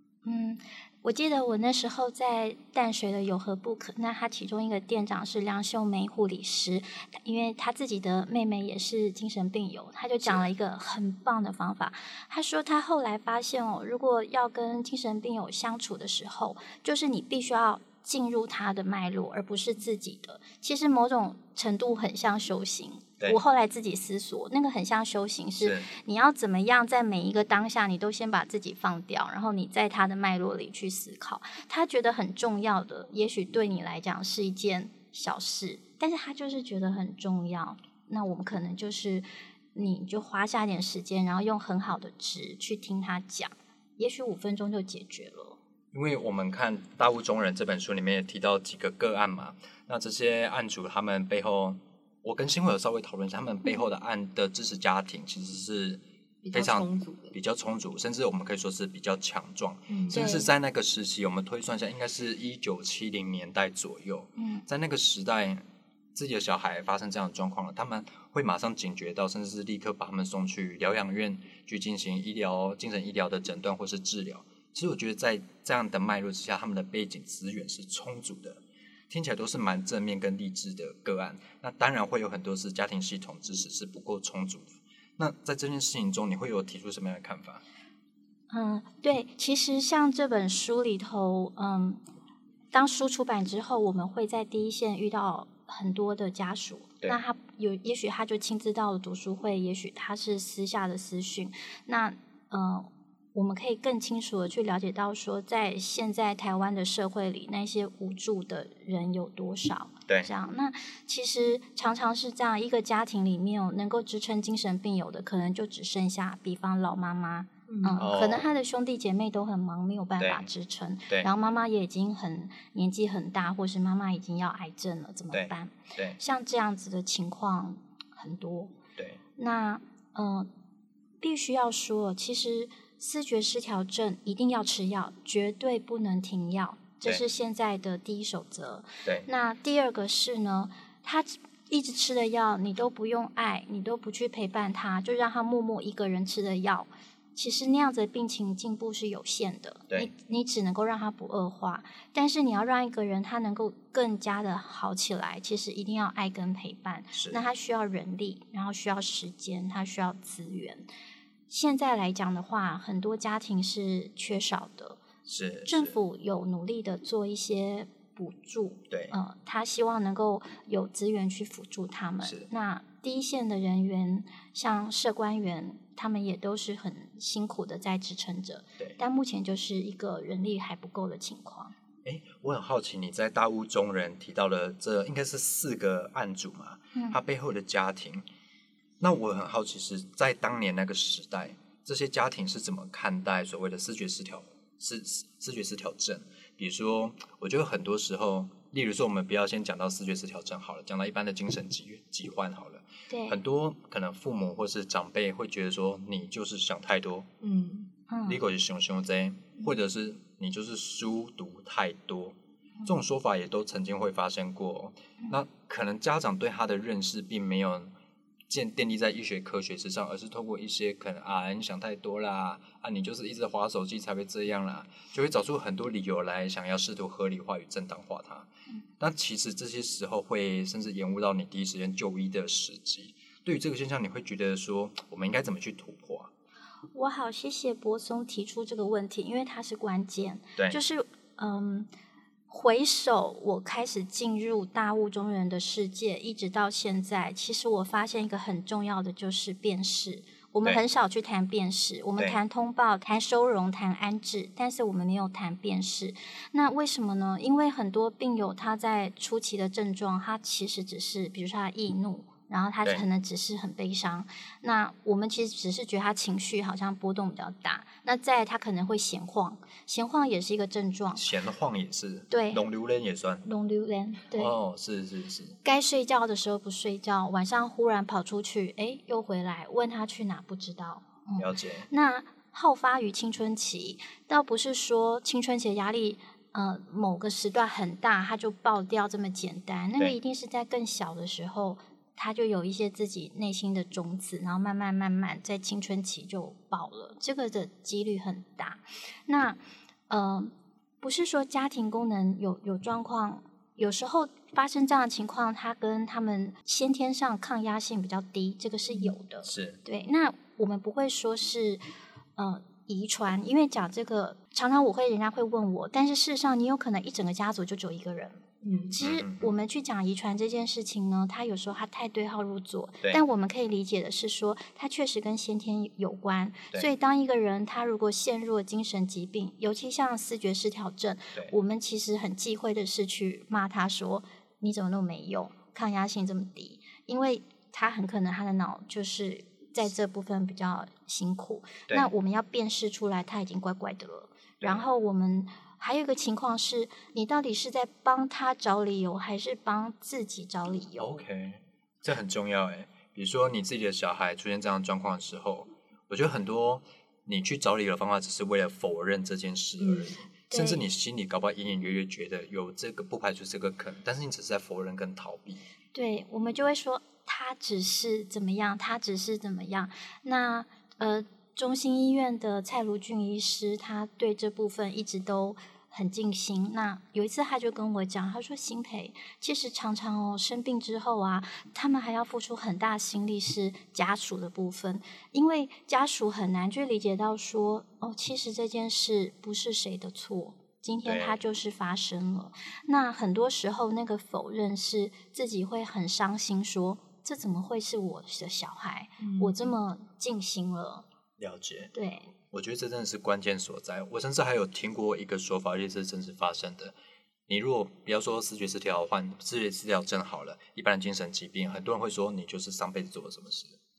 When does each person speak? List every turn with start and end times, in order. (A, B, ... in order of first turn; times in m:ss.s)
0:00.2-0:45.6 A
0:10.2-0:10.5 B
0:25.6-0:25.9 B
0:45.9-1:05.6 B
0:56.4-0:57.4 C
0:59.9-1:00.2 C
1:00.1-1:00.5 A
1:04.4-1:04.6 A
1:06.2-1:27.6 B
1:28.5-1:32.0 A
1:32.7-2:08.8 A
1:57.7-1:58.0 C
1:58.0-1:58.5 B
2:00.2-2:00.5 B
2:05.3-2:06.2 B
2:09.4-2:10.5 A
2:11.2-2:40.8 A
2:37.2-2:37.4 B
2:41.5-2:45.0 A
2:45.3-2:45.9 B
2:45.7-3:01.8 A
2:48.9-2:49.2 B
3:02.0-3:08.2 B
3:09.0-3:27.3 B
3:23.1-3:23.4 A
3:27.4-3:27.9 C
3:28.1-3:28.4 A
3:28.2-3:37.9 B
3:38.5-3:48.5 B
3:49.0-3:56.3 B
3:56.9-4:01.9 A
4:00.6-4:00.8 B
4:02.5-4:31.2 A
4:31.2-4:33.4 B
4:32.3-4:32.6 A
4:33.4-4:34.6 A
4:34.3-4:35.6 B
4:35.6-5:11.8 A
4:41.4-4:41.9 B
5:09.4-5:09.8 B
5:12.4-5:51.2 A
5:18.6-5:19.0 C
5:19.0-5:19.5 B
5:51.0-6:05.6 B
5:59.8-6:00.1 C
6:00.5-6:00.8 A
6:05.9-6:41.0 A
6:31.0-6:31.4 B
6:39.2-6:39.6 C
6:41.4-6:41.9 B
6:42.0-6:42.3 A
6:42.5-6:47.0 B
6:47.5-6:53.8 B